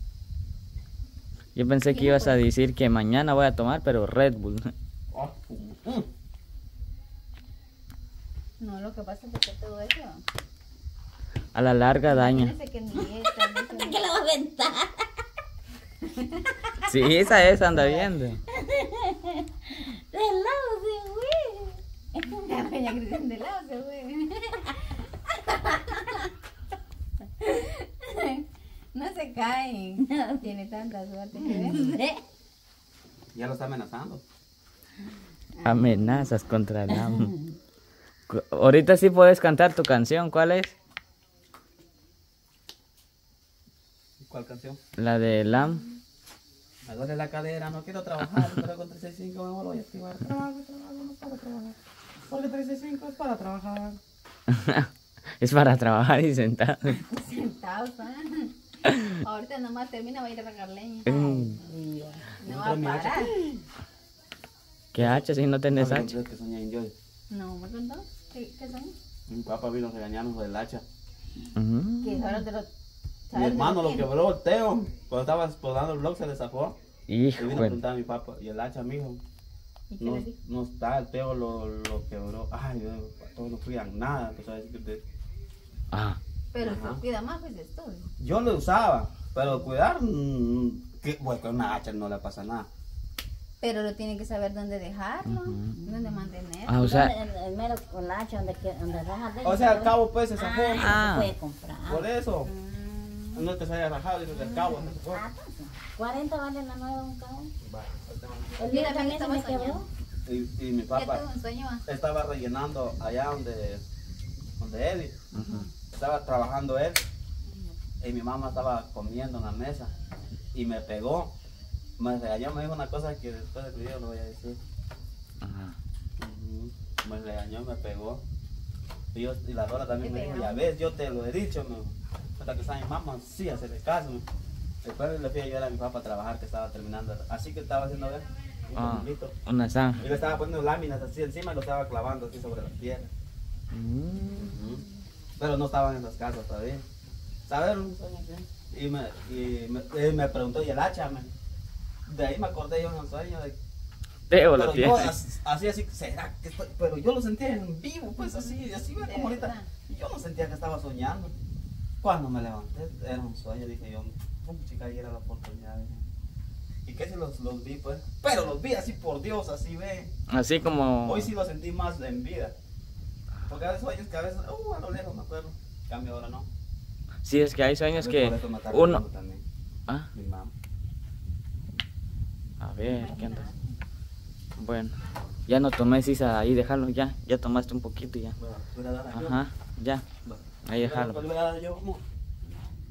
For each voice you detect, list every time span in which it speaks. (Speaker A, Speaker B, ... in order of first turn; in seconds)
Speaker A: 1.6-4.7, 11.5-12.5, 16.9-18.4, 35.6-37.4, 38.3-40.7, 45.0-45.8, 54.5-54.9, 55.4-57.0, 58.8-59.1, 61.1-61.6, 64.9-66.1, 71.6-72.2, 77.1-77.8, 85.9-86.2, 95.2-95.8, 96.7-97.1, 100.8-101.3, 115.3-115.7, 125.4-125.8, 138.8-140.0, 143.7-144.6, 154.3-155.2, 170.3-171.3, 177.2-179.0, 182.6-183.5, 184.6-184.9, 185.5-188.4, 189.1-190.1, 190.7-191.3
Speaker B: 1.9-2.4, 8.6-10.2, 12.1-14.1, 16.1-18.1, 22.3-26.3, 27.4-32.0, 35.5-36.3, 57.1-58.5, 59.2-61.1, 62.4-63.3, 67.3-69.0, 72.0-72.7, 73.3-74.1, 79.9-80.3, 86.5-88.1, 93.6-96.8, 102.5-103.5, 108.6-109.9, 110.9-111.8, 117.5-117.8, 130.0-130.7, 158.2-159.7, 182.8-183.7
Speaker C: 5.1-6.1, 33.3-34.2, 44.2-44.8, 46.9-51.8, 52.3-54.0, 62.4-63.6, 65.0-66.9, 69.3-70.8, 73.3-76.8, 77.4-79.2, 80.0-85.0, 86.6-87.0, 88.2-92.7, 99.4-101.0, 101.9-102.5, 103.3-105.2, 107.6-108.9, 110.3-111.2, 111.8-113.8, 114.6-115.2, 115.9-117.0, 118.0-119.9, 120.5-121.3, 122.0-124.6, 126.2-128.2, 129.1-134.2, 134.8-139.3, 140.0-143.1, 144.3-144.8, 145.4-146.8, 147.5-151.3, 152.1-153.6, 154.6-161.3, 162.0-166.0, 166.9-170.1, 171.1-172.5, 173.5-176.5, 177.9-179.4, 180.1-180.5, 188.4-189.4, 190.2-192.0
Speaker D: 12.9-15.1, 18.5-22.4, 30.1-30.4, 31.4-32.2, 36.9-37.2, 61.1-62.3, 95.8-96.2, 96.8-102.1, 104.3-107.5, 108.6-109.8